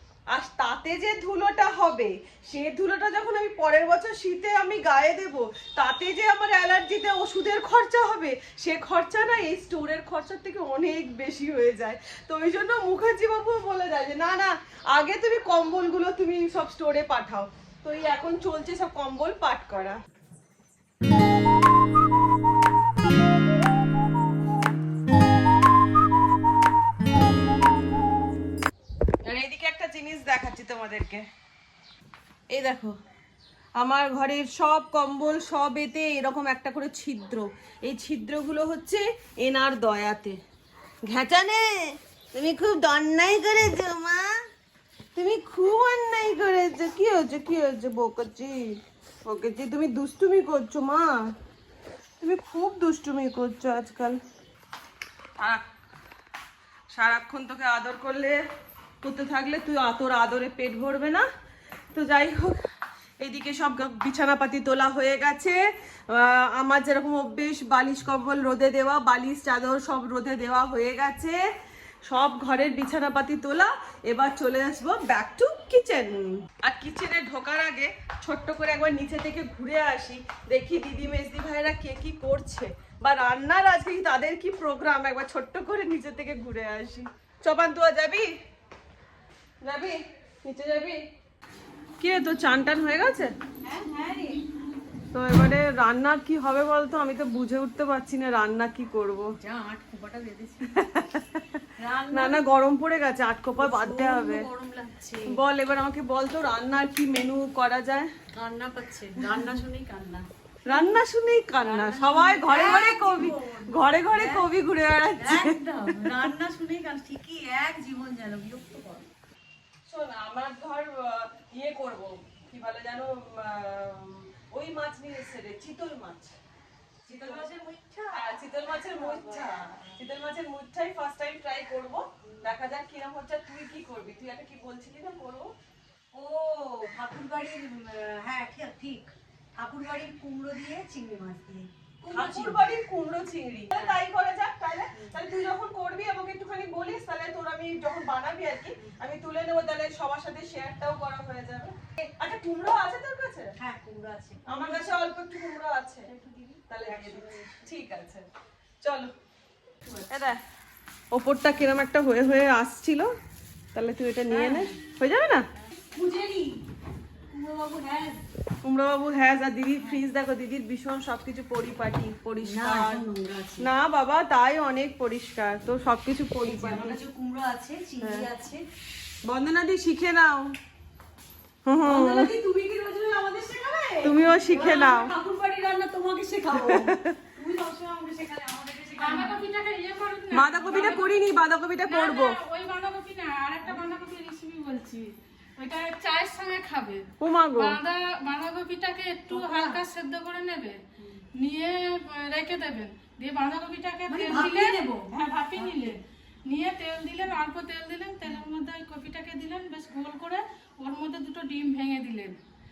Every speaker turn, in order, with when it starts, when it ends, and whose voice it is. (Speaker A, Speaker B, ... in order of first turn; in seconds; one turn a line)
Speaker A: 0.3-20.0
Speaker A: 29.3-31.2
Speaker A: 32.5-32.9
Speaker A: 33.8-40.4
Speaker A: 41.1-41.6
Speaker A: 42.4-44.3
Speaker A: 45.1-48.6
Speaker A: 49.3-51.1
Speaker A: 52.2-54.2
Speaker A: 56.9-58.4
Speaker A: 59.0-61.2
Speaker A: 61.9-62.6
Speaker A: 63.2-65.6
Speaker A: 66.1-71.4
Speaker A: 72.1-88.3
Speaker A: 89.6-91.0
Speaker A: 92.0-93.3
Speaker B: 93.7-94.4
Speaker A: 95.1-99.3
Speaker B: 99.4-100.9
Speaker A: 100.9-101.4
Speaker B: 101.8-102.5
Speaker A: 102.1-104.5
Speaker B: 103.6-105.3
Speaker A: 105.3-108.1
Speaker B: 108.3-111.0
Speaker A: 110.7-116.1
Speaker B: 111.6-114.5
Speaker B: 115.2-119.1
Speaker A: 119.9-126.3
Speaker B: 127.1-130.0
Speaker A: 127.2-127.5
Speaker A: 128.1-135.5
Speaker B: 136.1-142.6
Speaker A: 142.1-153.5
Speaker B: 143.7-144.0
Speaker B: 144.9-145.2
Speaker B: 153.6-155.0
Speaker A: 154.5-156.1
Speaker B: 156.1-157.6
Speaker A: 156.7-158.3
Speaker A: 158.8-159.1
Speaker A: 160.1-160.4
Speaker A: 161.1-163.1
Speaker A: 163.8-165.4
Speaker B: 164.3-164.8
Speaker B: 165.8-166.7
Speaker B: 167.3-168.2
Speaker A: 168.6-173.0
Speaker B: 172.4-173.7
Speaker A: 173.6-177.0
Speaker B: 176.4-178.6
Speaker A: 178.0-178.3
Speaker A: 179.2-180.5
Speaker A: 181.7-182.3
Speaker B: 181.8-189.4
Speaker A: 184.0-185.1
Speaker A: 186.6-187.0
Speaker C: 189.0-191.1
Speaker A: 190.3-192.4
Speaker C: 191.8-200.8
Speaker A: 197.2-197.8
Speaker B: 199.3-199.8
Speaker B: 201.0-201.2
Speaker C: 201.4-212.4
Speaker B: 204.1-205.9